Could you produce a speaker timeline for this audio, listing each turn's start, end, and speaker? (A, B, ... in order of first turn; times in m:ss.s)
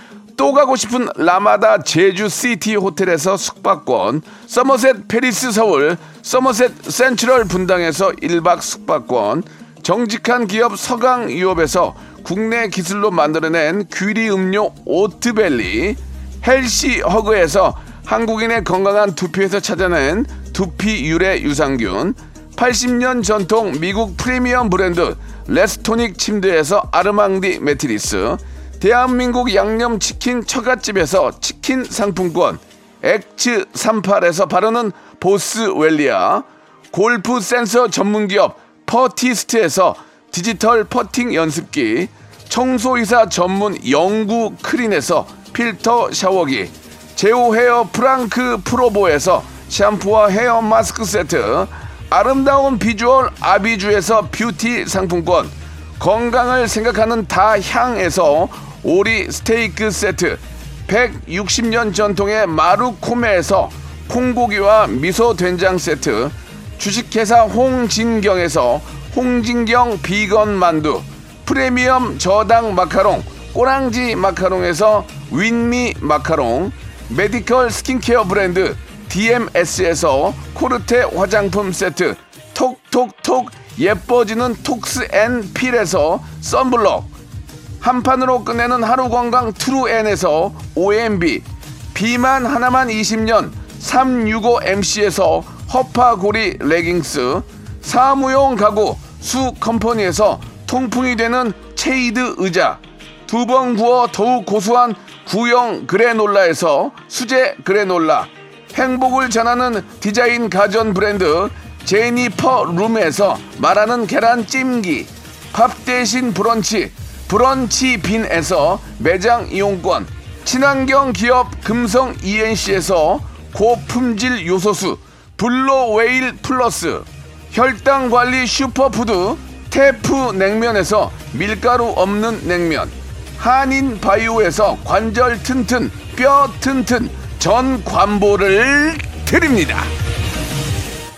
0:00.4-1:27.1 A
1:27.8-2:19.9 A